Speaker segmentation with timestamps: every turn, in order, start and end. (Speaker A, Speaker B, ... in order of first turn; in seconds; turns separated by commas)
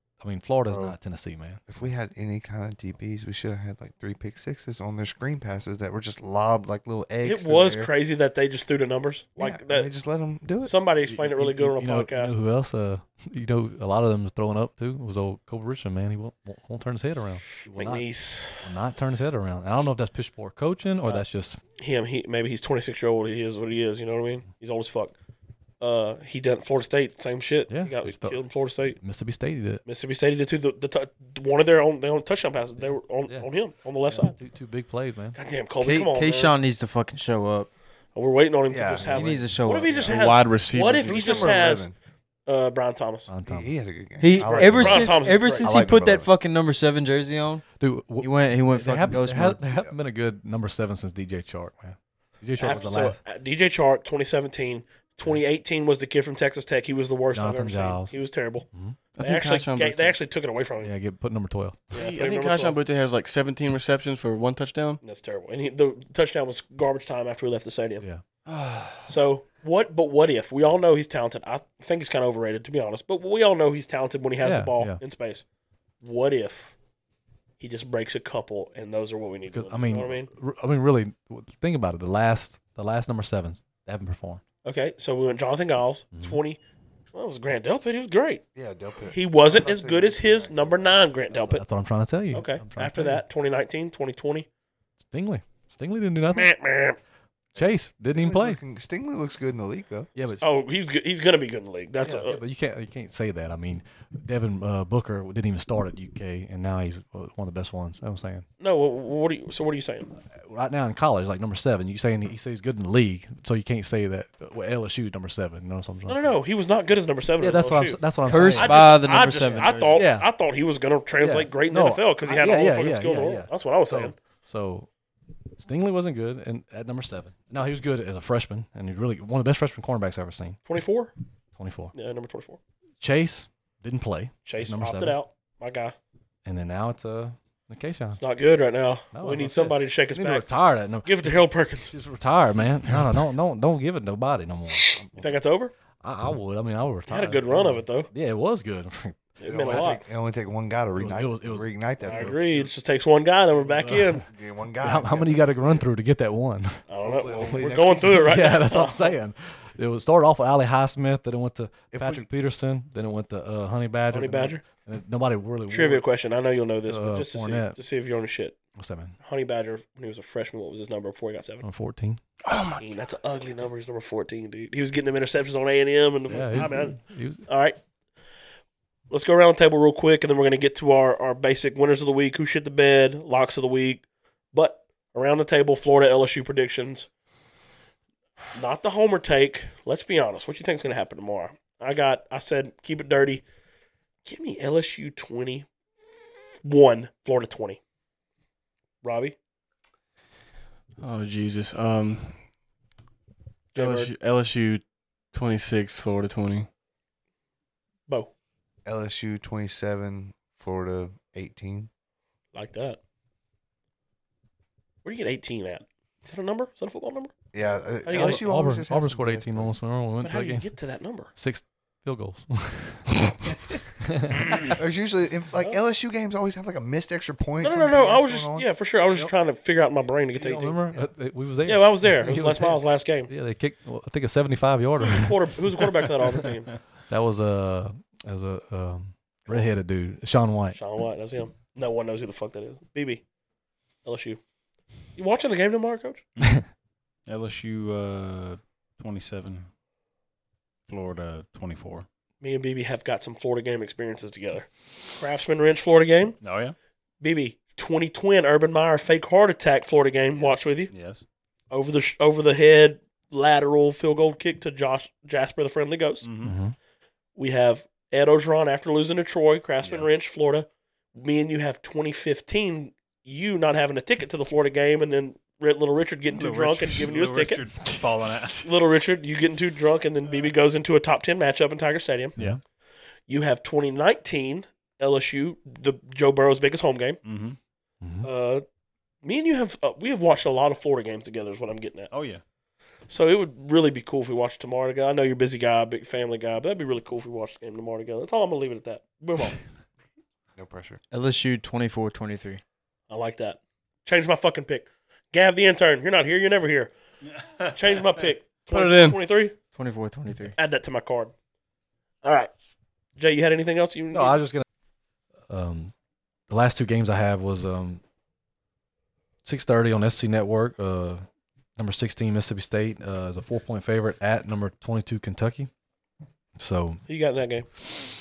Speaker A: 0.2-1.6, Speaker B: 0.7-0.9, Speaker B: 1.7-7.9, Speaker C: 7.2-9.9, Speaker B: 9.4-10.8, Speaker C: 10.6-12.4, Speaker A: 11.0-21.6, Speaker C: 17.6-18.7, Speaker C: 21.8-25.1, Speaker C: 25.8-29.0, Speaker A: 27.7-28.4, Speaker A: 29.0-29.8, Speaker C: 29.9-34.4, Speaker A: 34.1-35.4, Speaker C: 35.4-36.5, Speaker D: 35.8-37.7, Speaker C: 38.1-41.9, Speaker B: 38.7-41.9, Speaker D: 39.1-40.1, Speaker E: 40.1-41.5, Speaker C: 42.5-43.3, Speaker A: 43.3-43.7, Speaker B: 43.5-46.3, Speaker D: 44.2-47.6, Speaker C: 44.4-45.7, Speaker A: 47.8-53.2, Speaker D: 48.2-49.6, Speaker C: 52.6-58.6, Speaker A: 57.3-58.1, Speaker A: 58.7-59.0, Speaker E: 59.1-60.1, Speaker C: 59.2-60.9, Speaker A: 60.8-61.9, Speaker C: 61.9-62.8, Speaker E: 61.9-65.0, Speaker C: 65.0-68.0, Speaker E: 68.5-69.0, Speaker C: 69.1-75.4, Speaker A: 74.4-75.0, Speaker C: 76.0-76.7, Speaker C: 77.6-80.3, Speaker A: 79.5-84.4, Speaker C: 84.7-86.6, Speaker A: 86.1-86.4, Speaker C: 87.1-88.4, Speaker B: 88.5-91.1, Speaker C: 89.1-91.6, Speaker A: 91.4-93.2, Speaker C: 92.3-94.5, Speaker A: 95.0-96.5, Speaker C: 96.3-97.0, Speaker A: 97.6-98.6, Speaker B: 97.6-100.1, Speaker A: 100.2-100.5, Speaker C: 100.4-102.4, Speaker A: 102.0-108.5, Speaker C: 108.6-110.1, Speaker A: 110.3-116.4, Speaker C: 116.1-118.0, Speaker A: 117.4-119.0, Speaker D: 118.2-120.1, Speaker C: 118.5-124.2, Speaker A: 119.9-120.3, Speaker A: 121.2-124.9, Speaker A: 125.6-130.6, Speaker C: 130.7-131.1, Speaker A: 131.6-131.9, Speaker C: 131.9-132.6, Speaker A: 133.0-135.2, Speaker C: 134.4-135.9, Speaker A: 136.4-138.2, Speaker C: 138.1-140.5, Speaker A: 139.1-145.4, Speaker C: 141.0-141.9, Speaker C: 145.1-145.7, Speaker A: 146.0-149.9, Speaker C: 147.1-148.1, Speaker C: 149.4-150.0, Speaker B: 149.4-152.7, Speaker A: 150.9-152.4, Speaker C: 152.0-154.2, Speaker B: 153.7-155.7, Speaker A: 153.8-154.2, Speaker A: 154.8-156.8, Speaker C: 156.9-159.2, Speaker B: 157.0-158.4, Speaker A: 157.4-166.0, Speaker B: 161.9-162.3, Speaker C: 164.1-164.6, Speaker C: 165.7-168.6, Speaker A: 166.8-167.8, Speaker A: 168.8-169.2, Speaker C: 169.2-171.6, Speaker A: 171.6-172.2, Speaker E: 172.4-172.8, Speaker C: 172.7-177.8, Speaker A: 176.3-177.4, Speaker C: 179.1-187.1, Speaker C: 188.5-193.4, Speaker C: 194.2-195.7, Speaker C: 196.7-197.8, Speaker C: 199.0-199.3, Speaker E: 201.0-202.4, Speaker C: 203.7-204.1, Speaker E: 203.7-206.7, Speaker B: 208.8-211.9, Speaker C: 212.5-213.0, Speaker C: 215.0-217.3, Speaker B: 217.5-219.7, Speaker C: 218.0-218.4, Speaker A: 218.1-220.7, Speaker C: 220.2-221.3, Speaker A: 221.3-223.4, Speaker A: 224.0-224.4, Speaker B: 224.7-228.7, Speaker C: 227.6-230.8, Speaker A: 230.4-235.3, Speaker C: 231.7-233.3, Speaker C: 235.1-236.7, Speaker A: 237.1-240.8, Speaker C: 240.7-243.2, Speaker C: 244.1-244.4, Speaker C: 245.2-246.2, Speaker F: 246.4-246.6, Speaker F: 247.3-249.7, Speaker F: 250.9-252.1, Speaker C: 252.4-256.4, Speaker F: 256.4-256.7, Speaker C: 257.2-260.9, Speaker F: 260.9-261.2, Speaker C: 261.7-266.2, Speaker F: 266.2-266.5, Speaker A: 266.4-266.7, Speaker C: 267.4-277.6, Speaker F: 276.3-278.6, Speaker C: 278.6-282.3, Speaker C: 283.3-287.2, Speaker F: 287.2-287.6, Speaker A: 288.0-288.3, Speaker C: 288.2-288.6, Speaker C: 289.2-292.1, Speaker F: 292.1-292.4, Speaker C: 293.1-299.6, Speaker B: 300.6-301.0, Speaker D: 301.1-302.6, Speaker C: 303.1-306.9, Speaker C: 307.7-309.6, Speaker E: 308.7-309.2, Speaker D: 309.7-310.6, Speaker C: 310.6-311.3, Speaker C: 312.2-312.5, Speaker C: 313.2-314.4, Speaker A: 314.1-314.6, Speaker A: 315.5-315.9, Speaker A: 316.5-318.0, Speaker A: 319.4-321.2, Speaker A: 321.8-325.7, Speaker A: 326.6-327.0, Speaker C: 327.1-327.7